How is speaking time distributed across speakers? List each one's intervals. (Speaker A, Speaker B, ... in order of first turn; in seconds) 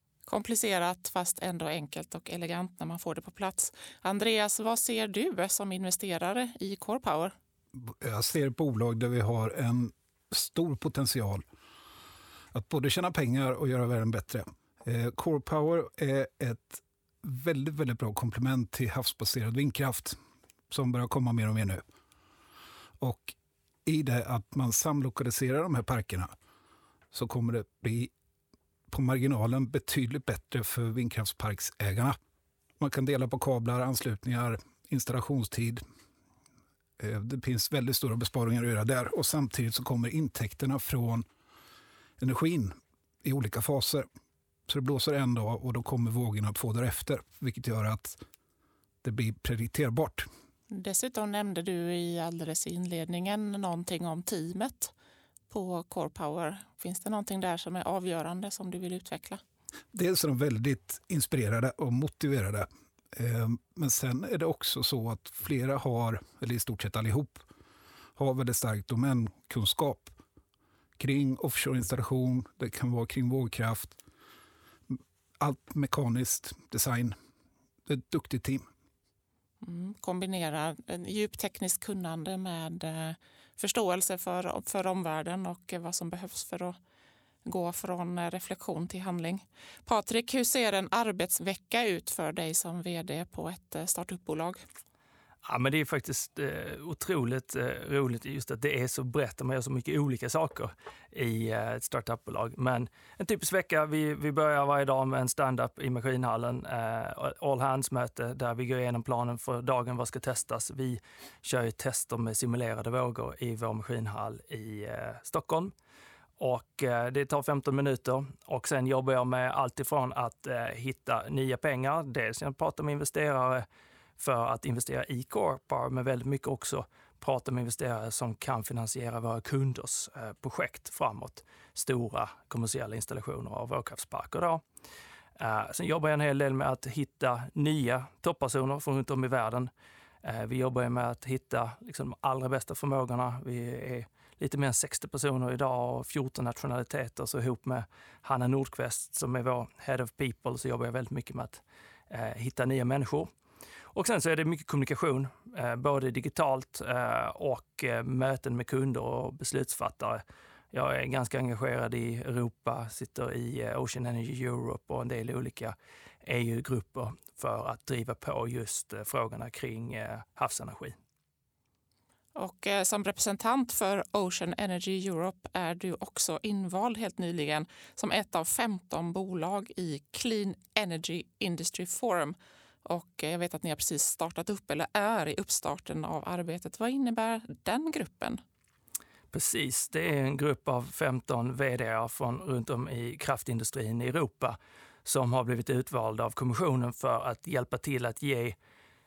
Speaker A: 0.3-7.3, 50.7-54.9, 55.5-59.4, 79.6-86.8, 87.5-94.6, 172.4-188.4
Speaker B: 7.8-11.4, 12.5-20.2, 20.7-21.8, 23.0-26.3, 27.1-28.1, 28.9-32.2, 32.8-35.8, 37.0-41.2, 42.2-44.1, 44.7-48.2, 49.0-50.3, 59.9-67.5, 68.2-70.1, 71.0-74.0, 74.9-77.2, 77.9-78.7
Speaker C: 95.4-115.7, 116.4-123.7, 124.2-134.6, 135.4-139.7, 140.2-153.3, 153.9-171.0, 189.3-198.6